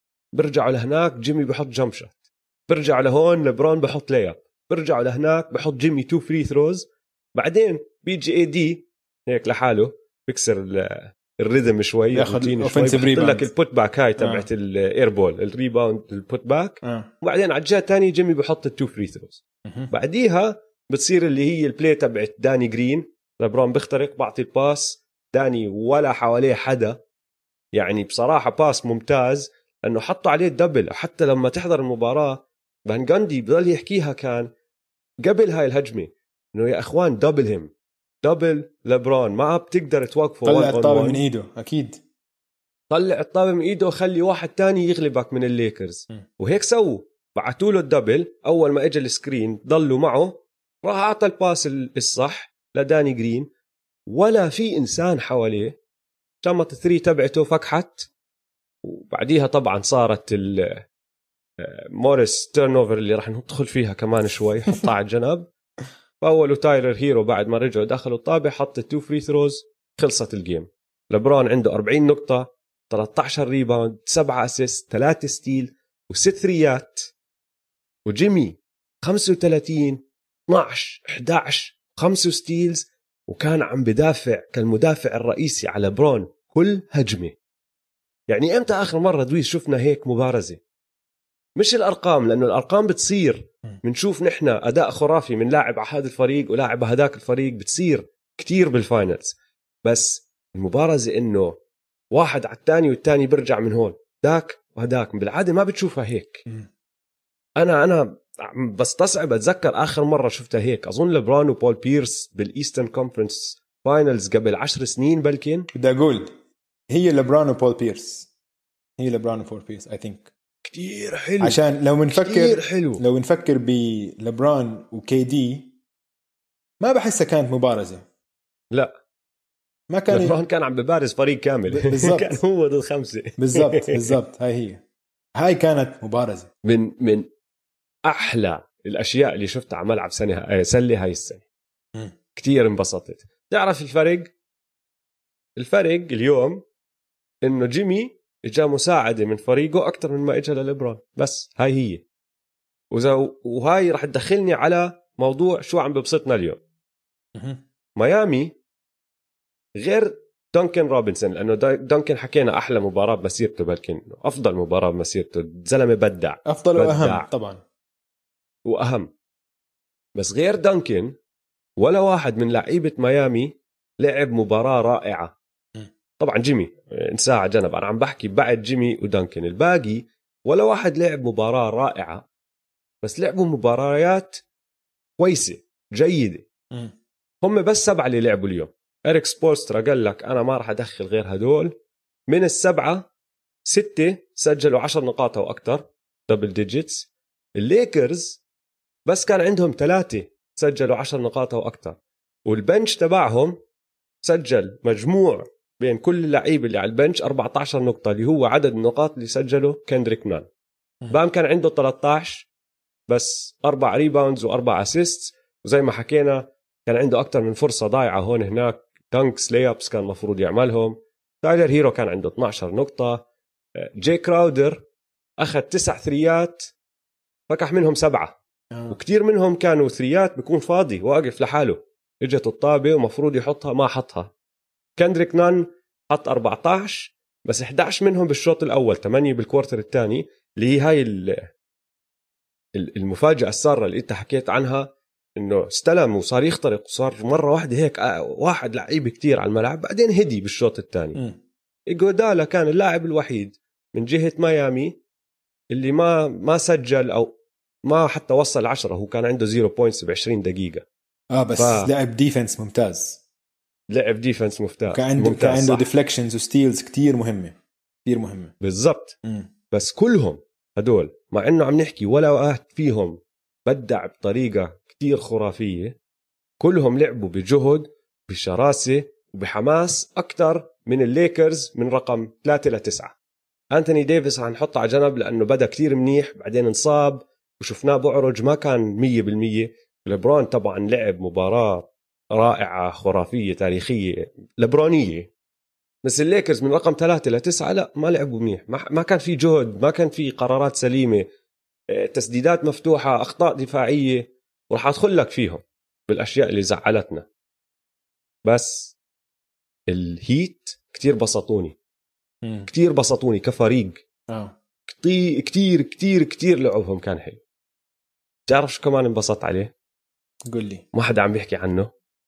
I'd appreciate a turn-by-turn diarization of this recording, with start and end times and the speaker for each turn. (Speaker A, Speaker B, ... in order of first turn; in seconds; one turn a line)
Speaker A: 0.3-27.0
Speaker B: 12.1-13.5
Speaker B: 14.2-14.5
Speaker B: 16.8-17.1
Speaker B: 19.7-19.9
Speaker A: 27.8-34.5
Speaker A: 35.2-37.7
Speaker A: 38.2-41.2
Speaker B: 40.5-42.0
Speaker A: 42.9-53.5
Speaker A: 54.1-55.8
Speaker A: 56.4-58.1
Speaker A: 58.8-60.9
Speaker A: 61.6-65.5
Speaker A: 66.2-77.1
Speaker A: 78.1-87.4
Speaker A: 88.3-90.6
Speaker A: 91.6-101.6
Speaker A: 102.1-106.4
Speaker A: 107.6-115.7
Speaker B: 115.7-116.3
Speaker B: 116.9-118.3
Speaker B: 119.0-120.3
Speaker A: 120.6-121.6
Speaker B: 121.4-125.7
Speaker A: 122.1-123.0
Speaker B: 126.8-128.1
Speaker B: 129.9-130.4
Speaker A: 130.1-134.1
Speaker B: 131.7-132.4
Speaker B: 133.4-134.8
Speaker B: 135.4-136.5
Speaker A: 136.7-137.3
Speaker A: 138.1-141.5
Speaker A: 142.4-144.3
Speaker A: 145.6-146.6
Speaker A: 147.4-152.1
Speaker A: 152.9-156.6
Speaker B: 157.3-157.6
Speaker A: 158.0-158.6
Speaker A: 159.8-167.3
Speaker B: 166.5-167.6
Speaker A: 168.7-169.1
Speaker A: 170.2-171.1
Speaker A: 171.8-175.4
Speaker A: 176.2-182.3
Speaker A: 183.0-184.4
Speaker A: 185.2-186.5
Speaker A: 187.4-191.7
Speaker A: 192.3-193.1
Speaker A: 193.7-198.4
Speaker A: 199.1-203.6
Speaker A: 204.2-210.5
Speaker A: 211.1-212.5
Speaker A: 213.1-223.3
Speaker A: 223.8-224.8
Speaker A: 225.4-226.7
Speaker A: 227.5-228.4
Speaker B: 228.7-229.0
Speaker A: 228.9-234.3
Speaker A: 235.0-241.5
Speaker A: 242.8-251.2
Speaker A: 251.9-254.9
Speaker A: 255.7-257.3
Speaker A: 257.9-260.9
Speaker B: 261.3-263.2
Speaker A: 261.6-261.9
Speaker A: 263.9-265.9
Speaker B: 264.9-268.5
Speaker A: 268.6-269.2
Speaker A: 269.7-276.0
Speaker A: 276.6-283.1
Speaker A: 283.7-295.3
Speaker A: 296.0-301.2
Speaker A: 301.9-307.3
Speaker A: 308.5-309.0
Speaker A: 309.9-311.8
Speaker B: 312.4-312.7
Speaker A: 312.7-314.0
Speaker B: 314.3-314.6
Speaker A: 314.9-317.4
Speaker A: 318.5-319.7
Speaker B: 320.5-320.8
Speaker A: 320.9-321.9